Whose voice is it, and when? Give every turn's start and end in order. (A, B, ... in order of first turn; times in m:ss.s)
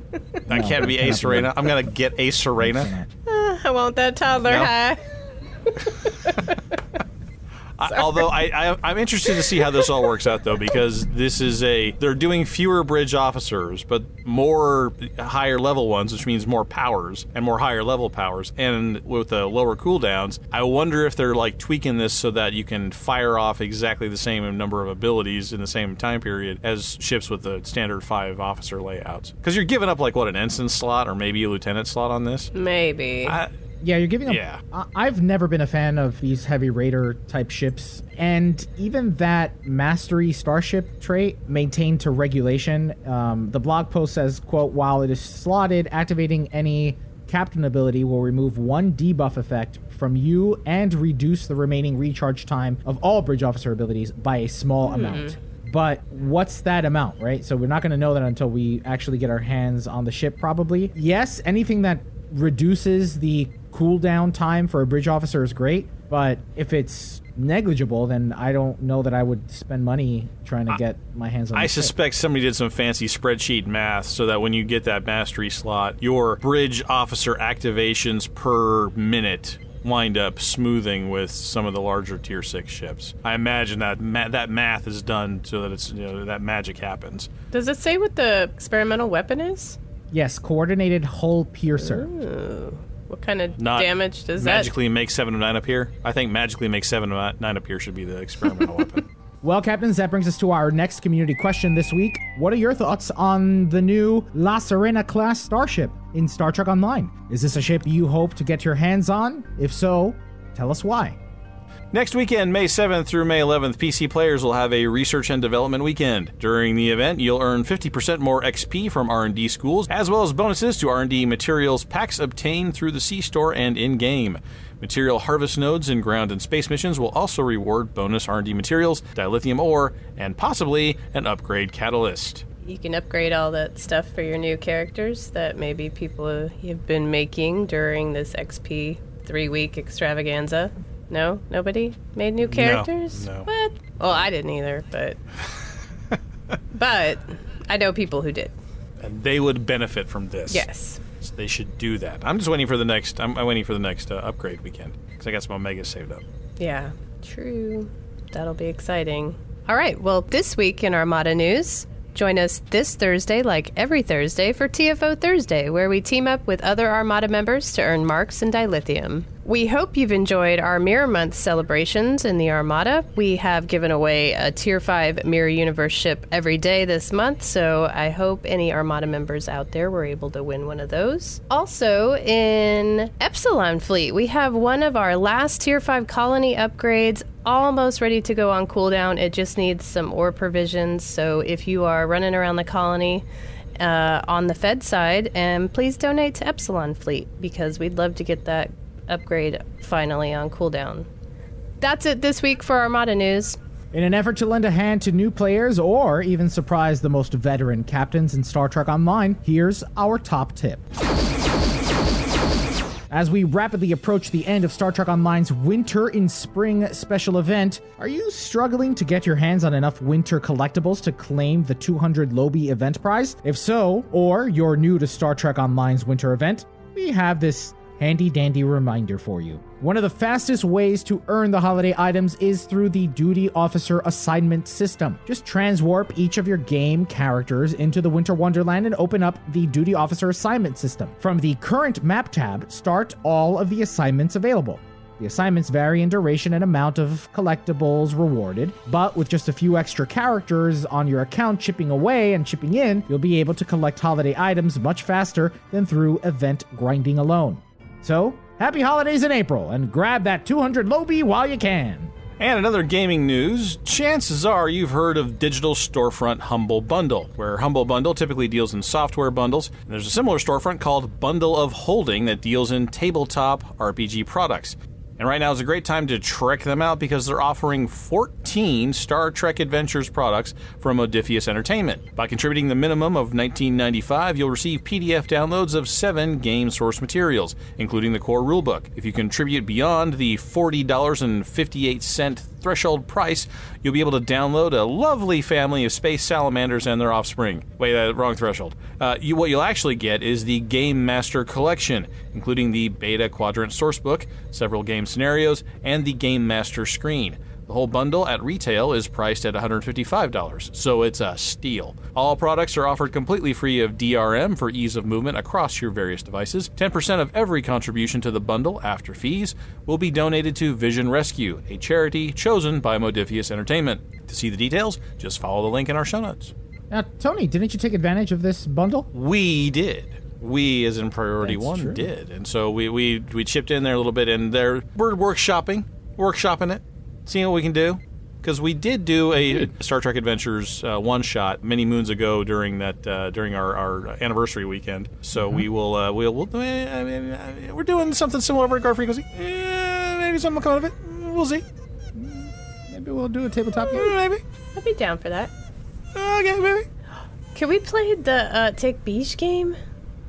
0:00.5-0:02.9 A
0:00.5-0:01.8 B
0:02.6-0:03.1 B
0:03.3-0:05.0 C
0:04.4-0:04.7 A
0:05.7-0:06.6 C
0:07.8-0:32.5 A
0:08.0-0:08.2 C
0:32.5-0:33.4 C
0:33.2-0:33.5 A
0:33.8-1:11.9 B
0:34.3-0:34.6 A
0:54.9-0:55.3 C
1:11.5-1:27.3 A
1:27.5-1:29.8 C
1:30.1-1:32.1 B
1:31.8-1:34.7 C
1:33.6-1:39.1 A
1:39.4-1:51.2 B
1:51.9-2:12.4 A
2:12.6-2:25.2 C
2:22.5-2:23.5 A
2:26.7-2:28.5 C
2:29.0-2:30.7 A
2:30.5-2:31.0 C
2:31.2-2:36.2 A
2:36.6-3:13.2 C
3:13.8-3:21.1 C
3:21.8-3:23.6 C
3:23.9-3:30.8 B
3:33.1-4:22.1 B
4:22.4-5:26.5 A
5:26.9-5:29.1 B
5:29.1-5:51.6 A
5:31.4-5:32.1 B
5:45.4-5:45.7 B
5:52.2-5:54.1 B
5:53.9-5:54.4 A
5:54.8-5:55.5 C
5:56.1-5:56.9 A
5:57.6-5:59.8 C